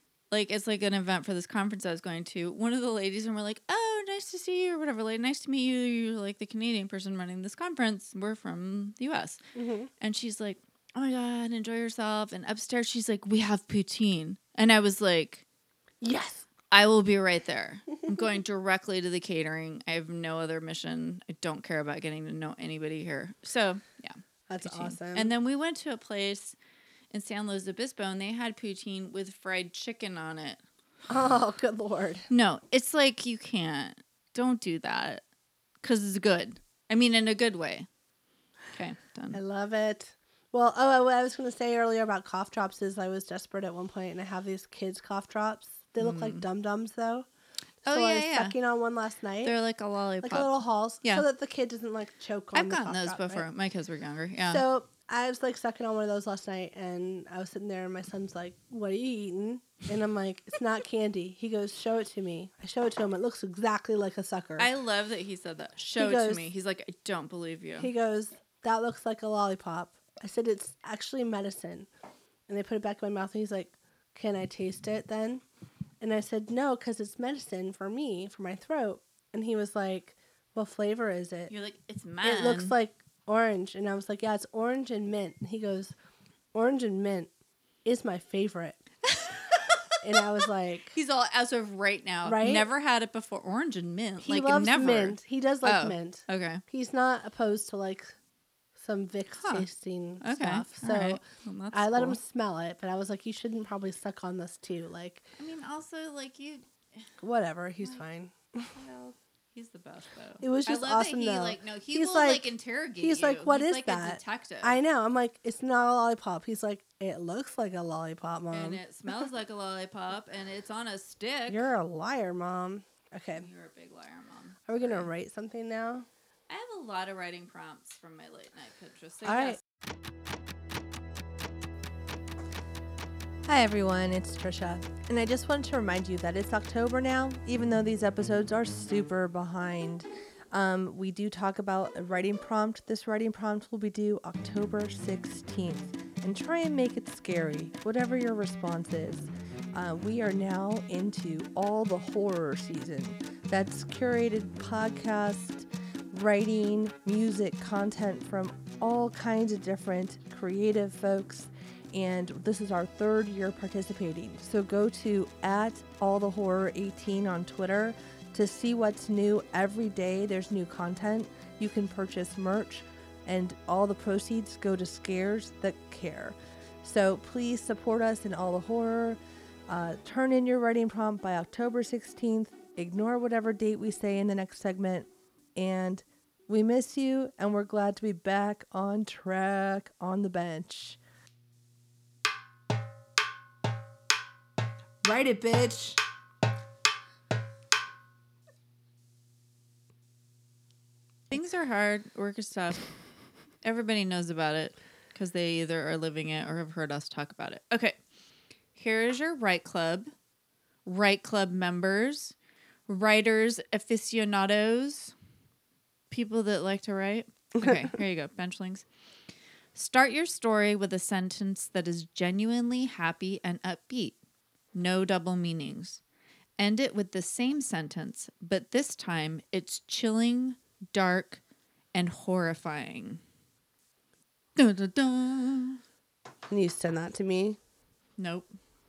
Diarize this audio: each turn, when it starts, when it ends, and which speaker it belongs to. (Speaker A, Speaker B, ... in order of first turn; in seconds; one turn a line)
Speaker A: 0.3-9.4
Speaker B: 9.6-9.9
Speaker A: 10.0-15.4
Speaker B: 16.0-16.5
Speaker A: 16.7-26.6
Speaker B: 24.5-25.3
Speaker A: 27.1-30.6
Speaker B: 31.1-32.3
Speaker A: 32.3-35.2
Speaker A: 35.8-37.9
Speaker A: 38.7-39.4
Speaker B: 39.3-47.3
Speaker A: 46.0-46.5
Speaker A: 47.9-48.5
Speaker B: 47.9-49.6
Speaker A: 49.4-51.3
Speaker B: 50.2-53.5
Speaker A: 52.5-54.6
Speaker B: 54.4-64.7
Speaker A: 64.6-67.9
Speaker B: 66.0-66.5
Speaker B: 67.8-71.9
Speaker B: 72.5-75.4
Speaker B: 76.0-81.5
Speaker A: 81.5-82.8
Speaker B: 82.2-86.0
Speaker B: 86.5-87.3
Speaker B: 87.8-88.8
Speaker A: 89.1-89.8
Speaker B: 90.0-90.9
Speaker A: 90.9-96.6
Speaker B: 92.2-92.7
Speaker B: 94.2-98.2
Speaker B: 98.8-101.2
Speaker A: 99.4-99.7
Speaker A: 100.2-102.2
Speaker B: 101.7-105.3
Speaker A: 105.4-107.1
Speaker B: 107.2-108.7
Speaker A: 108.7-114.8
Speaker B: 110.4-118.8
Speaker A: 118.5-121.7
Speaker B: 121.5-123.5
Speaker A: 123.3-125.1
Speaker B: 124.7-126.1
Speaker A: 126.5-129.6
Speaker B: 129.2-129.6
Speaker C: 133.5-179.2
Speaker C: 179.7-191.0
Speaker C: 195.1-195.9
Speaker A: 201.3-202.9
Speaker A: 203.6-208.0
Speaker A: 208.8-210.1
Speaker A: 210.8-212.3
Speaker A: 212.9-215.2
Speaker A: 216.1-218.8
Speaker A: 219.8-224.2
Speaker A: 224.7-226.0
Speaker A: 226.6-231.4
Speaker A: 231.9-233.2
Speaker A: 234.6-235.8
Speaker C: 236.5-237.6
Speaker A: 238.2-238.5